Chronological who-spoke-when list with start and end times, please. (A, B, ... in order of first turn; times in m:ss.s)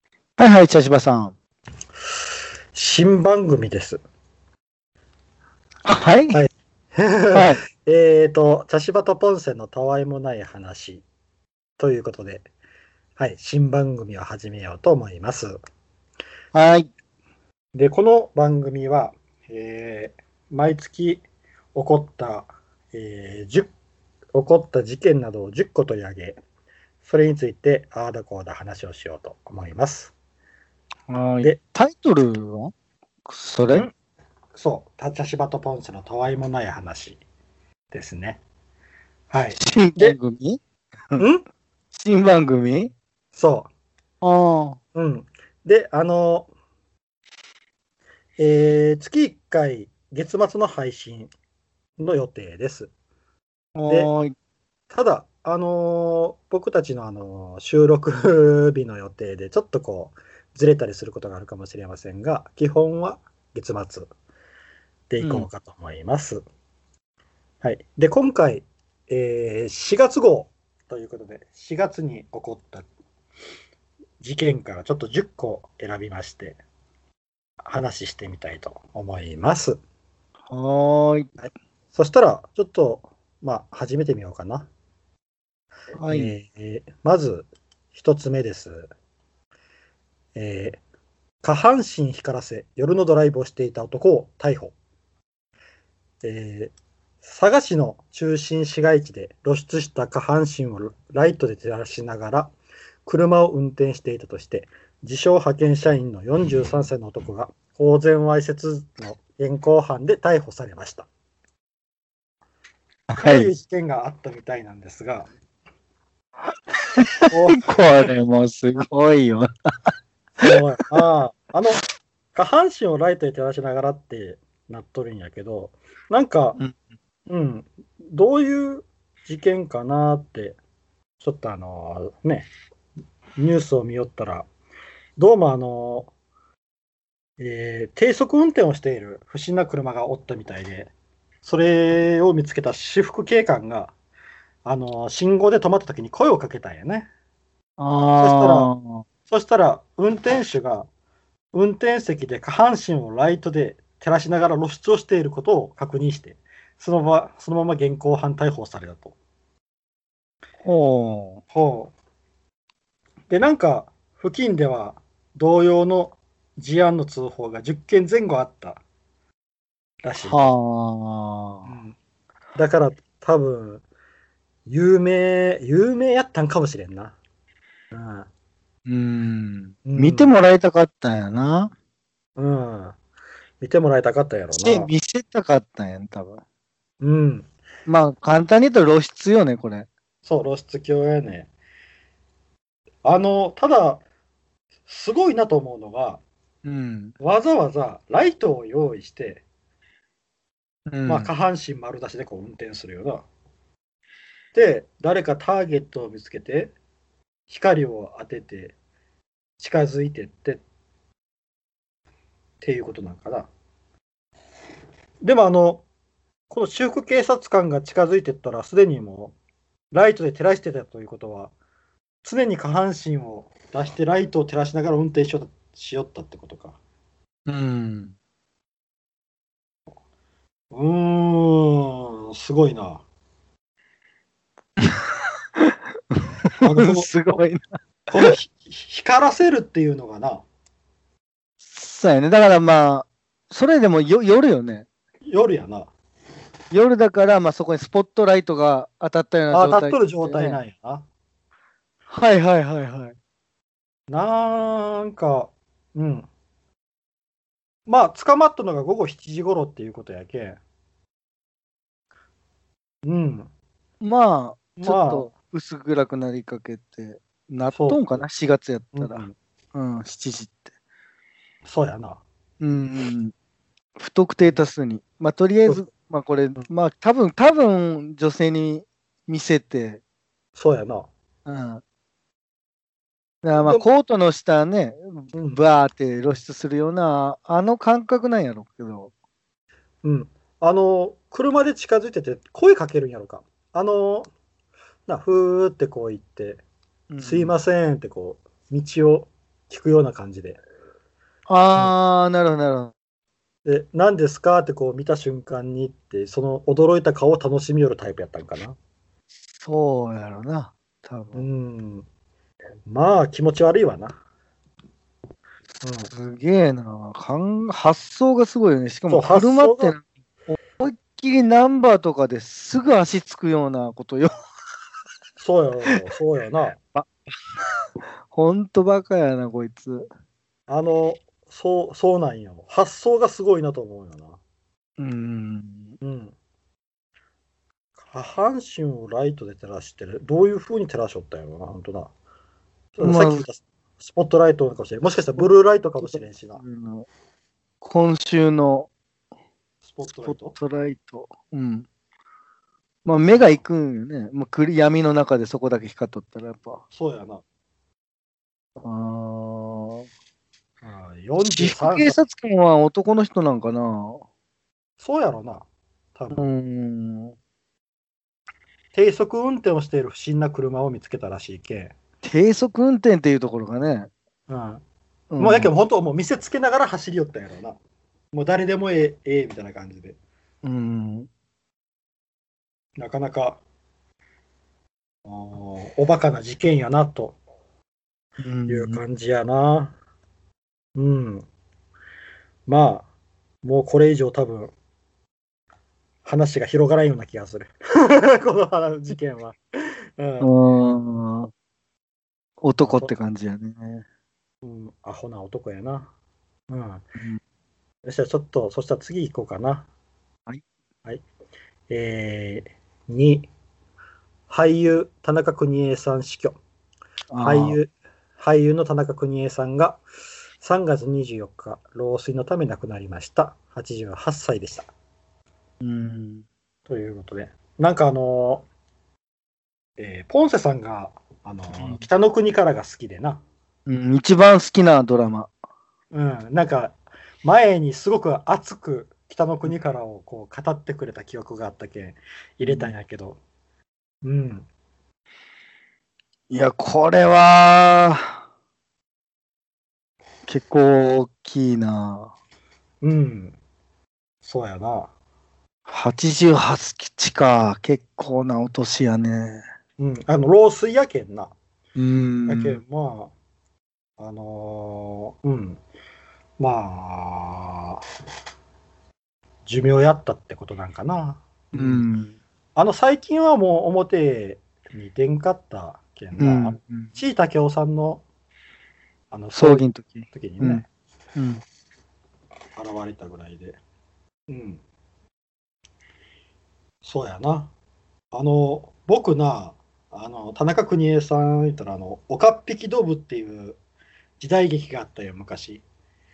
0:00.4-0:01.3 A
0:02.7-0:04.0 B
0:05.8-0:06.4 A
0:06.3-0:11.0 B
0:07.3-0:07.6 A
0:11.8-0:12.5 B
0:13.2-0:15.6 B
0:16.5-0:16.9 A
0:17.7-0:21.2 B
0:21.7-0:23.7 B
0:24.3-0:26.4 B
0:27.0-0:30.1 B
0:31.1-0:32.7 A
0:33.2-0:33.9 A
0:34.5-0:37.2 B
0:37.9-0:38.4 B
0:39.3-0:40.2 B
0:39.6-0:40.6 A
0:41.2-0:41.4 B
0:41.9-0:42.9 A
0:43.3-0:43.7 B
0:44.2-0:44.8 A
0:44.9-0:46.5 B
0:48.4-0:51.3 B
0:52.0-0:52.9 B
0:53.7-0:54.3 A
0:54.9-1:04.1 B
1:05.1-1:06.4 B
1:05.2-1:05.5 A
1:07.6-1:12.8 B
1:14.2-1:16.6 B
1:17.6-1:19.8 B
1:20.5-1:21.3 A
1:21.4-1:24.7 B
1:25.9-1:26.3 A
1:26.1-1:28.9 B
1:30.3-1:30.8 B
1:31.4-1:34.7 B
1:36.2-1:42.5 B
1:43.0-1:51.1 B
1:53.1-1:53.5 A
1:53.2-1:55.3 B
1:56.9-1:59.9 A
1:57.3-1:58.1 B
2:00.4-2:01.8 B
2:00.4-2:00.8 A
2:02.3-2:06.6 B
2:07.3-2:10.6 B
2:11.2-2:12.5 B
2:13.4-2:14.5 B
2:15.2-2:16.1 B
2:17.4-2:20.9 B
2:21.4-2:23.9 B
2:24.6-2:27.1 B
2:27.8-2:29.0 A
2:28.2-2:28.7 B
2:29.3-2:30.9 B
2:31.5-2:39.1 B
2:40.6-2:41.4 A
2:41.5-2:41.9 B
2:43.3-2:48.8 B
2:50.0-2:50.5 B
2:50.3-2:51.7 A
2:51.6-2:52.0 B
2:52.5-2:53.8 B
2:54.6-2:57.2 B
2:57.9-2:58.3 B
2:58.9-3:01.7 A
2:59.8-3:00.3 B
3:02.4-3:03.0 B
3:03.6-3:04.9 B
3:04.6-3:06.4 A
3:07.0-3:07.5 B
3:07.8-3:09.9 A
3:10.2-3:11.5 B
3:13.0-3:14.0 B
3:14.9-3:16.2 B
3:16.6-3:17.1 A
3:17.2-3:19.4 B
3:20.9-3:21.3 A
3:21.0-3:23.2 B
3:24.5-3:26.7 B
3:27.5-3:28.8 B
3:29.6-3:30.6 B
3:32.6-3:33.5 B
3:35.2-3:35.8 B
3:36.5-3:39.3 B
3:39.9-3:41.5 B
3:42.2-3:46.8 B
3:47.5-3:48.2 A
3:50.7-3:53.0 B
3:54.8-3:58.3 A
3:56.6-3:57.1 B
3:58.1-4:00.4 B
4:01.7-4:04.9 A
4:05.2-4:05.9 B
4:06.7-4:10.6 A
4:09.5-4:11.0 B
4:12.1-4:13.2 A
4:14.1-4:16.3 B
4:17.9-4:20.6 B
4:23.0-4:23.5 B
4:24.0-4:30.6 A
4:24.8-4:25.3 B
4:27.7-4:28.2 B
4:28.9-4:29.3 B
4:31.6-4:32.2 B
4:32.6-4:33.3 A
4:34.0-4:40.0 A
4:40.6-4:41.1 B
4:41.4-4:41.8 A
4:43.4-4:49.1 A
4:43.6-4:43.8 B
4:45.3-4:45.6 B
4:50.0-4:54.3 B
4:55.1-4:56.6 B
4:57.1-4:57.5 A
4:57.2-5:00.6 B
5:01.5-5:02.9 A
5:03.6-5:08.8 B
5:09.6-5:11.5 A
5:11.3-5:12.0 B
5:12.8-5:14.2 B
5:15.8-5:16.1 B
5:16.1-5:24.3 A
5:19.1-5:20.0 B
5:25.4-5:26.8 B
5:26.9-5:27.7 A
5:28.3-5:30.1 A
5:30.7-5:34.4 B
5:35.0-5:36.0 A
5:36.0-5:36.3 B
5:38.0-5:42.1 B
5:43.0-5:46.6 B
5:43.0-5:43.4 A
5:46.0-5:47.1 A
5:47.8-5:48.9 A
5:49.8-5:50.6 B
5:50.2-5:51.9 A
5:53.0-5:56.8 A
5:53.3-5:53.6 B
5:56.9-5:57.4 B
5:58.8-6:00.1 A
6:00.8-6:02.2 B
6:01.6-6:04.2 A
6:05.0-6:06.4 B
6:06.3-6:07.4 A
6:08.9-6:11.9 B
6:12.2-6:14.1 A
6:14.5-6:14.8 B
6:15.3-6:15.7 A
6:15.4-6:17.8 B
6:18.3-6:20.2 B
6:20.6-6:21.3 A
6:23.0-6:23.6 B
6:25.2-6:27.4 B
6:28.4-6:29.0 A
6:28.7-6:30.0 B
6:31.0-6:31.4 B
6:32.7-6:33.1 B
6:33.6-6:34.7 B
6:36.2-6:40.5 B
6:40.4-6:41.5 A
6:42.6-6:44.0 A
6:42.8-6:43.1 B
6:44.6-6:46.1 B
6:46.7-6:47.0 B
6:48.0-6:49.9 B
6:51.9-6:53.5 B
6:54.5-6:56.6 B
6:57.3-6:57.8 A
6:57.4-7:00.0 B
7:00.6-7:04.9 B
7:05.8-7:06.4 A
7:06.9-7:08.6 B
7:10.0-7:13.4 B
7:11.8-7:12.0 A
7:13.9-7:15.5 A
7:16.1-7:23.4 B
7:22.6-7:22.9 A
7:24.2-7:24.7 B
7:26.5-7:28.4 A
7:30.5-7:32.3 A
7:33.0-7:33.6 B
7:34.4-7:35.1 B
7:35.9-7:39.6 A
7:40.0-7:41.5 B
7:42.0-7:42.8 A
7:42.5-7:43.3 B
7:44.2-7:45.8 B
7:46.6-7:48.0 B
7:49.6-7:52.1 B
7:51.7-7:52.4 A
7:52.7-7:58.2 B
7:56.4-7:57.2 A
7:59.3-8:00.8 B
7:59.5-8:00.8 A
8:01.4-8:01.6 A
8:02.8-8:03.8 B
8:04.5-8:04.8 B
8:07.0-8:07.7 B
8:08.3-8:13.8 B
8:14.4-8:15.8 B